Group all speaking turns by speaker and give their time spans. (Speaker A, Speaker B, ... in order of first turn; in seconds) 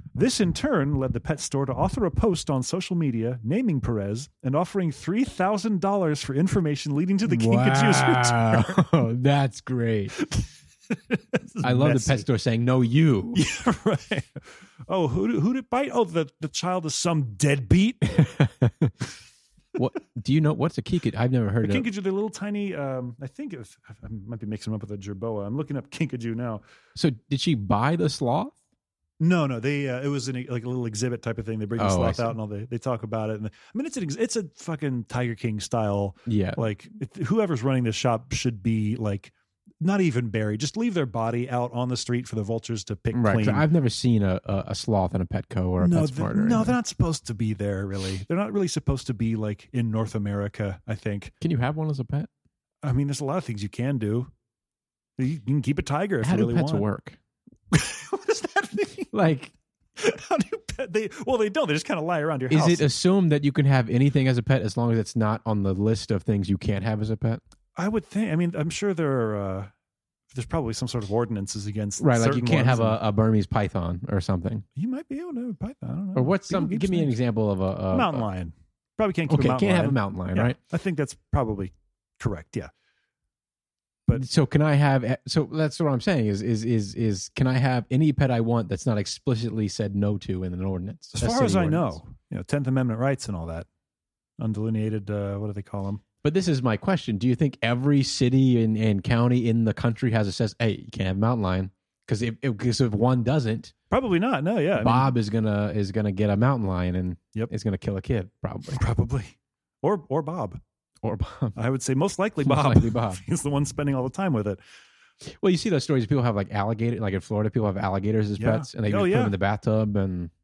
Speaker A: 0.1-8.9, 10.2-12.3, 13.3-18.2, 21.6-26.6, 29.2-43.7, 45.8-51.4, 52.8-54.3, 55.2-56.9, 57.7-59.1, 60.0-62.9, 67.8-69.7, 70.3-73.0, 74.8-77.1, 77.9-82.7, 91.2-93.7, 94.4-96.0, 103.9-105.1, 108.7-110.6, 111.6-114.6, 118.4-119.4
Speaker B: 7.3-10.2, 11.6-13.4, 18.1-18.9, 19.8-21.9, 27.0-28.6, 31.8-32.3, 36.3-36.6, 43.1-46.8, 51.4-52.3, 56.2-57.2, 59.1-59.5, 62.5-67.4, 72.0-74.7, 76.2-78.3, 79.3-80.6, 84.1-92.0, 96.2-103.7, 104.8-108.8, 111.0-111.6, 112.4-113.2, 115.2-120.3